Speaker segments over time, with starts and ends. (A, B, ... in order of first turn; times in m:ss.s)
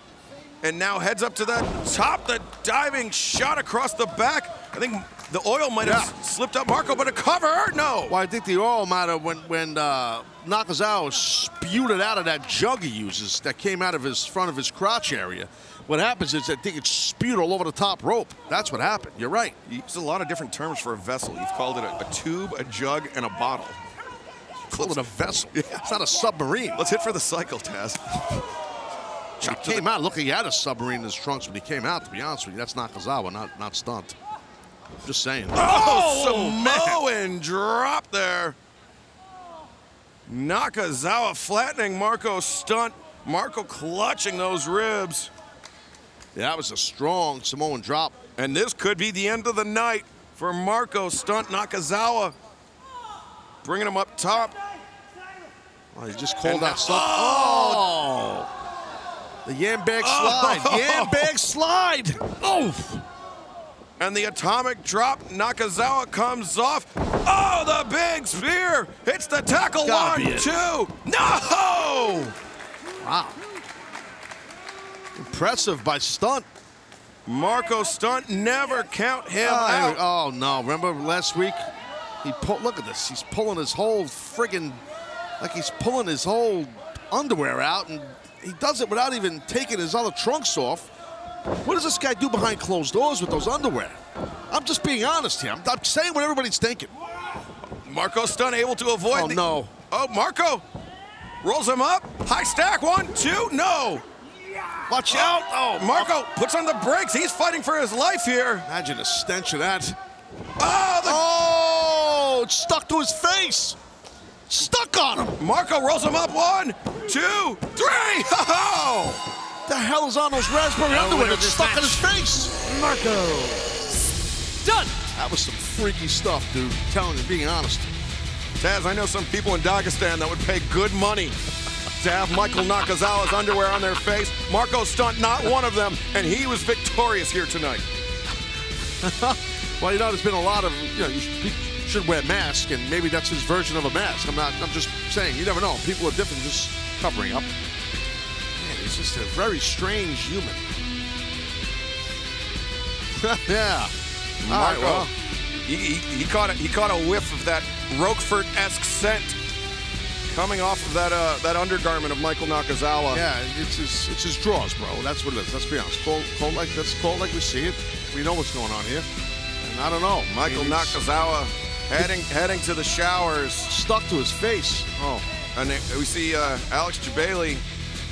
0:00.6-0:08.2 A
0:05.8-0:06.1 B
0:08.1-0:19.6 B
0:19.6-0:23.8 A
0:24.7-0:26.8 B
0:24.7-0:25.8 A
0:26.8-0:28.4 A
0:29.4-0:29.9 A
0:29.4-0:34.2 B
0:35.0-0:37.0 B
0:35.5-0:38.6 A
0:40.3-0:45.3 A
0:46.4-0:48.1 B
0:48.4-0:52.4 A
0:53.6-0:54.6 A
0:55.9-0:58.5 B
0:56.4-0:57.9 A
0:59.4-1:03.0 B
1:00.0-1:01.3 A
1:04.0-1:12.4 A
1:09.8-1:10.6 B
1:13.0-1:13.4 B
1:15.1-1:16.5 B
1:17.2-1:20.0 A
1:19.4-1:21.6 B
1:22.2-1:24.8 B
1:25.4-1:30.9 B
1:31.6-1:34.0 B
1:34.5-1:36.9 B
1:37.8-1:40.6 A
1:39.1-1:39.7 B
1:41.4-1:44.0 A
1:44.9-1:46.1 B
1:45.1-1:48.7 A
1:48.6-1:50.0 B
1:50.6-1:51.2 A
1:51.0-1:53.8 B
1:54.5-1:55.4 B
1:55.4-1:59.2 A
1:59.7-2:02.5 B
2:00.9-2:02.0 C
2:02.6-2:03.9 C
2:04.6-2:05.1 C
2:05.1-2:07.9 B
2:08.6-2:11.4 A
2:12.0-2:17.8 A
2:19.0-2:27.5 B
2:28.6-2:30.6 B
2:33.2-2:33.9 B
2:34.4-2:35.1 A
2:34.5-2:35.1 B
2:35.6-2:39.4 A
2:40.3-2:43.2 A
2:43.1-2:49.1 B
2:49.6-2:51.0 B
2:50.3-2:53.7 A
2:53.7-2:55.2 B
2:55.5-2:57.6 A